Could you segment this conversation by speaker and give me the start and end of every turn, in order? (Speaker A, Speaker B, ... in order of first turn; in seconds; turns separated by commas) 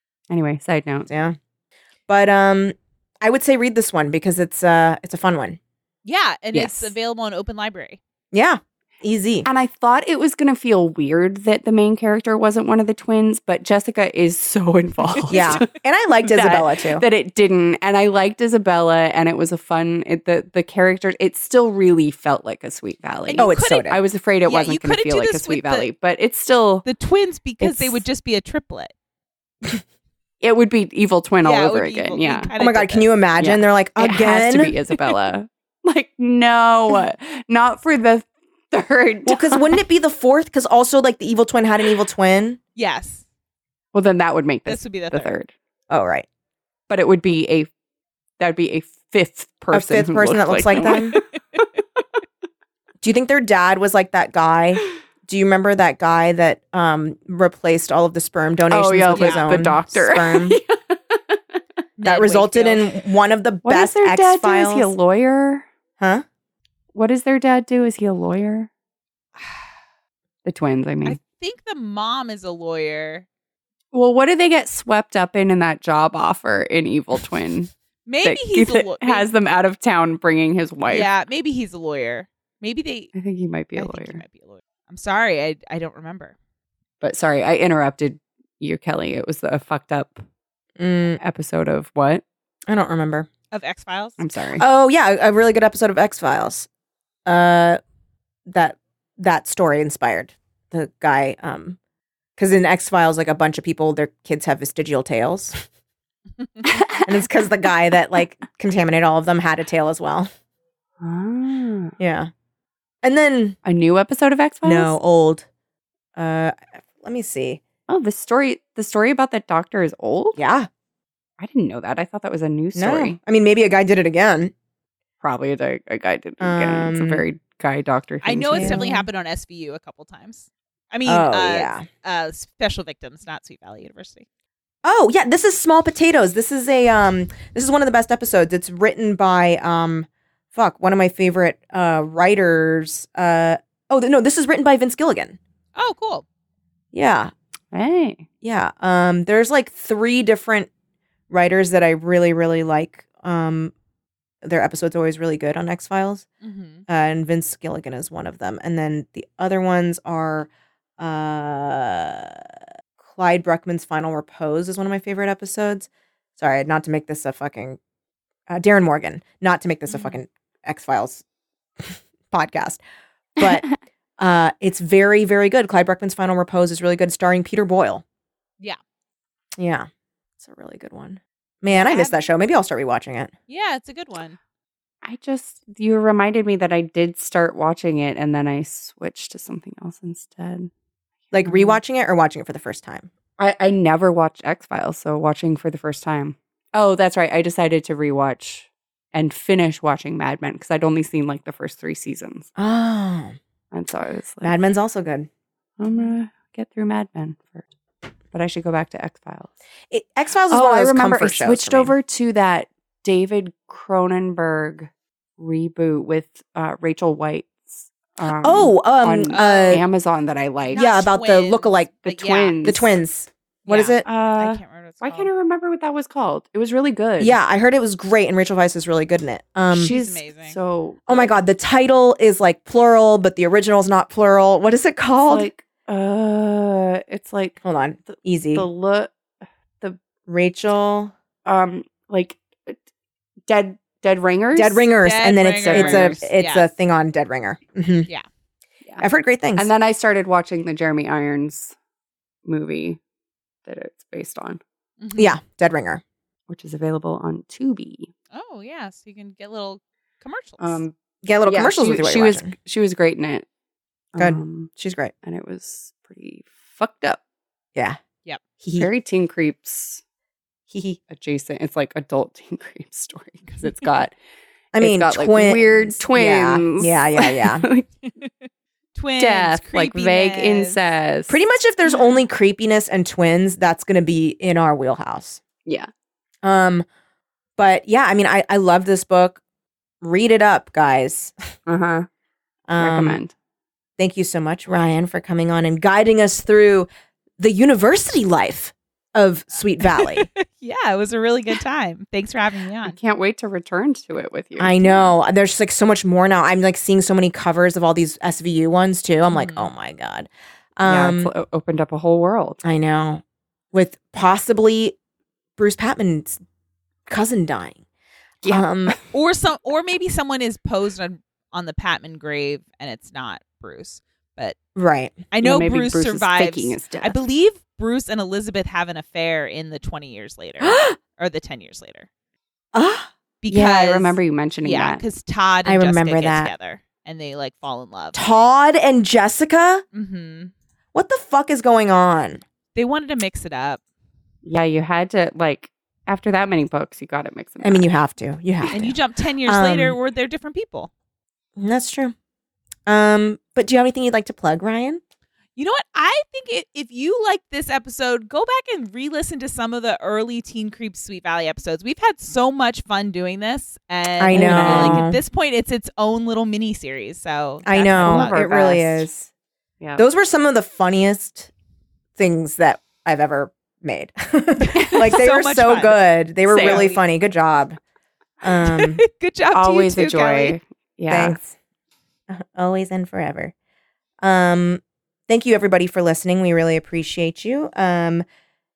Speaker A: 0.3-1.1, Speaker B: 1.1-1.4, Speaker B: 2.1-5.6, Speaker C: 6.0-8.0, Speaker A: 6.5-6.9, Speaker B: 8.3-9.5, Speaker A: 9.4-15.7, Speaker C: 15.1-15.6, Speaker B: 15.3-17.0, Speaker A: 16.2-26.8, Speaker C: 23.3-25.9, Speaker B: 23.4-24.0, Speaker C: 26.8-28.9, Speaker A: 27.6-28.0, Speaker A: 30.4-32.5, Speaker C: 31.4-33.1, Speaker B: 32.6-34.7, Speaker A: 33.4-39.7, Speaker B: 39.2-42.6, Speaker C: 42.8-43.2, Speaker A: 43.9-45.5, Speaker C: 44.6-45.3, Speaker B: 45.9-46.2, Speaker A: 46.9-47.7, Speaker A: 48.4-51.7, Speaker B: 49.7-51.2, Speaker B: 53.0-60.6, Speaker A: 58.7-61.4, Speaker C: 59.1-59.5, Speaker C: 62.0-62.9, Speaker B: 62.0-64.9, Speaker A: 63.6-65.7, Speaker B: 66.0-66.2, Speaker A: 66.9-68.7, Speaker A: 70.4-71.2, Speaker C: 71.0-73.2, Speaker A: 73.9-77.7, Speaker C: 78.0-79.3, Speaker A: 78.2-81.1, Speaker C: 80.9-83.1, Speaker A: 83.1-84.2, Speaker C: 83.8-86.3, Speaker A: 87.0-90.2, Speaker B: 90.8-91.2, Speaker A: 91.2-92.2, Speaker B: 92.7-93.3, Speaker C: 93.5-94.2, Speaker A: 94.2-94.6, Speaker B: 94.6-96.7, Speaker B: 97.2-97.8, Speaker B: 98.5-101.8, Speaker B: 102.4-105.6, Speaker A: 106.7-107.0, Speaker B: 107.0-110.3, Speaker A: 111.0-111.9, Speaker B: 112.0-112.3, Speaker B: 113.0-113.5, Speaker A: 113.6-114.9, Speaker B: 114.6-115.5, Speaker B: 116.2-117.6, Speaker A: 117.9-120.4, Speaker B: 120.3-120.7, Speaker A: 121.4-123.2, Speaker B: 122.7-124.5, Speaker A: 125.2-129.0, Speaker B: 126.4-127.2, Speaker C: 128.2-134.2, Speaker B: 128.5-128.9, Speaker B: 131.1-131.8, Speaker B: 134.8-145.4, Speaker C: 145.8-146.2, Speaker B: 146.9-147.3, Speaker A: 147.7-148.2, Speaker B: 148.4-150.7, Speaker B: 151.3-153.7, Speaker B: 154.4-156.2, Speaker C: 156.4-156.8, Speaker B: 156.9-167.8, Speaker B: 168.5-171.2, Speaker C: 169.9-170.2, Speaker B: 171.8-172.8, Speaker B: 173.4-173.7, Speaker B: 174.2-178.0, Speaker B: 179.6-179.9, Speaker B: 180.4-183.3, Speaker C: 181.7-182.1, Speaker C: 183.5-184.4, Speaker A: 185.0-190.7, Speaker B: 191.3-193.1, Speaker A: 191.4-191.8, Speaker A: 193.4-202.5, Speaker B: 202.6-203.4, Speaker A: 203.7-204.5, Speaker B: 204.4-205.3, Speaker A: 205.8-207.6, Speaker A: 208.3-209.6, Speaker B: 209.9-211.9, Speaker A: 210.5-220.8, Speaker B: 218.2-219.8, Speaker C: 219.3-219.8, Speaker C: 220.7-222.6, Speaker B: 220.7-221.9, Speaker A: 222.0-222.9, Speaker B: 222.6-224.0, Speaker C: 223.7-225.3, Speaker A: 224.0-227.4, Speaker B: 227.2-229.9, Speaker C: 229.7-230.6, Speaker A: 229.8-231.3, Speaker B: 231.1-235.5, Speaker A: 235.3-239.1, Speaker B: 237.6-238.7, Speaker B: 240.3-241.1, Speaker A: 241.4-242.8, Speaker A: 243.5-244.9, Speaker B: 244.5-248.1, Speaker C: 245.0-246.6, Speaker A: 245.6-246.2, Speaker B: 249.0-249.7, Speaker A: 249.6-251.8, Speaker A: 252.4-253.0, Speaker A: 253.6-254.6, Speaker C: 255.0-255.3, Speaker B: 255.2-256.0, Speaker A: 256.5-258.1, Speaker C: 258.3-260.8, Speaker A: 260.6-260.9, Speaker B: 261.2-262.5, Speaker A: 261.4-263.4, Speaker A: 264.1-264.7, Speaker B: 264.2-265.1, Speaker A: 265.2-267.2, Speaker B: 268.6-268.9, Speaker A: 268.8-270.0, Speaker B: 270.7-271.0, Speaker A: 271.1-274.1, Speaker B: 274.7-277.7, Speaker A: 274.8-277.9, Speaker C: 278.9-280.8, Speaker A: 279.2-281.4, Speaker B: 281.3-285.4, Speaker A: 285.6-285.9, Speaker B: 286.4-286.8, Speaker B: 287.6-289.4, Speaker B: 290.0-291.3, Speaker A: 291.7-292.1, Speaker B: 292.7-293.2, Speaker A: 292.8-293.3, Speaker B: 294.0-296.9, Speaker B: 297.4-300.3, Speaker C: 299.9-303.0, Speaker A: 302.9-305.0, Speaker B: 304.6-311.3, Speaker C: 309.3-309.7, Speaker A: 310.8-312.6, Speaker B: 312.6-314.9, Speaker B: 315.6-316.4, Speaker B: 317.1-317.8, Speaker A: 318.4-319.0, Speaker B: 318.5-318.9, Speaker C: 319.1-324.5, Speaker B: 324.8-325.2, Speaker C: 325.3-332.1, Speaker A: 325.4-327.2, Speaker B: 330.6-331.0, Speaker B: 332.7-333.1, Speaker C: 333.4-338.2, Speaker A: 333.5-335.0, Speaker B: 335.6-336.5, Speaker B: 338.1-339.8, Speaker C: 339.9-340.5, Speaker B: 340.9-342.4, Speaker C: 342.7-343.8, Speaker A: 344.4-347.9, Speaker B: 347.6-349.9, Speaker C: 348.7-350.9, Speaker B: 351.6-352.1, Speaker B: 352.9-355.0, Speaker C: 355.6-368.4, Speaker B: 364.2-365.2, Speaker A: 364.3-365.1, Speaker B: 367.6-369.3, Speaker A: 368.0-369.1, Speaker B: 370.0-371.5, Speaker B: 372.2-377.8, Speaker A: 374.7-375.1, Speaker C: 375.0-376.0, Speaker A: 376.5-376.9, Speaker C: 376.5-377.0, Speaker B: 378.4-379.0, Speaker C: 378.6-380.6, Speaker A: 379.5-381.4, Speaker B: 381.1-381.5, Speaker B: 382.3-383.5, Speaker B: 384.2-388.2